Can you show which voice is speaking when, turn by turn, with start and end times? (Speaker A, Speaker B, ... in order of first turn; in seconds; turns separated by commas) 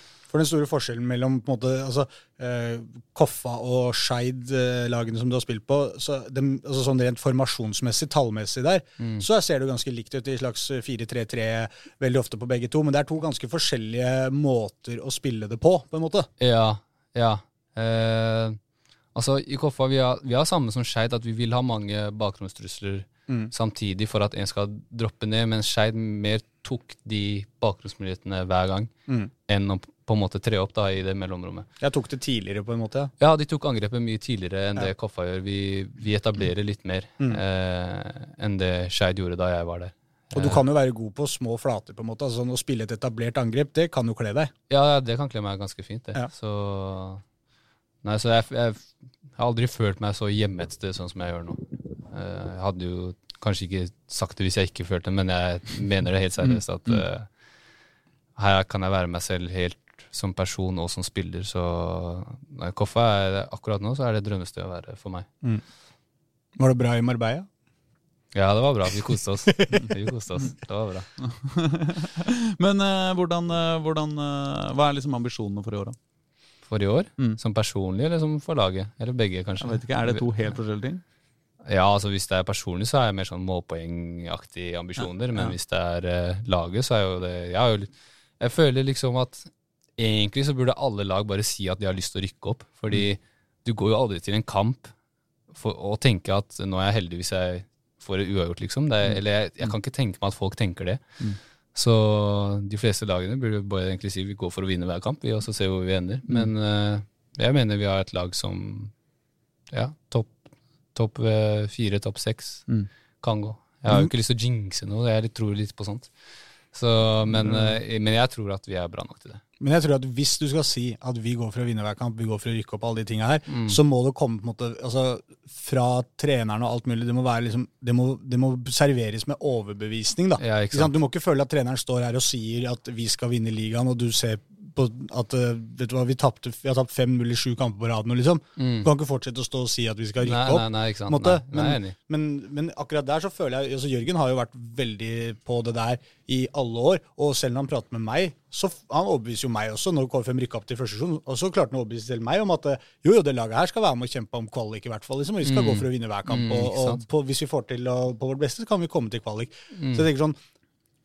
Speaker A: 0.3-16.3, Speaker B: 9.0-9.3, Speaker B: 16.4-18.6, Speaker B: 19.1-28.9, Speaker B: 29.5-31.7, Speaker A: 31.8-33.1, Speaker B: 33.2-40.6, Speaker A: 40.3-44.5, Speaker B: 44.7-47.2, Speaker B: 48.0-57.3, Speaker C: 56.4-57.0, Speaker B: 58.4-65.3, Speaker A: 66.6-67.5, Speaker B: 68.3-71.1, Speaker C: 71.2-76.0, Speaker B: 76.7-80.2, Speaker C: 79.6-81.0, Speaker B: 81.7-94.9, Speaker C: 85.0-85.5, Speaker B: 95.5-101.0, Speaker C: 99.0-99.7, Speaker B: 101.7-108.9, Speaker B: 109.7-110.4, Speaker B: 110.9-112.7, Speaker B: 113.2-116.1, Speaker B: 116.7-119.4, Speaker A: 119.6-160.4, Speaker B: 123.5-123.8, Speaker B: 130.4-130.9, Speaker B: 138.6-138.9, Speaker B: 140.2-141.9, Speaker B: 155.4-157.0, Speaker B: 159.7-160.1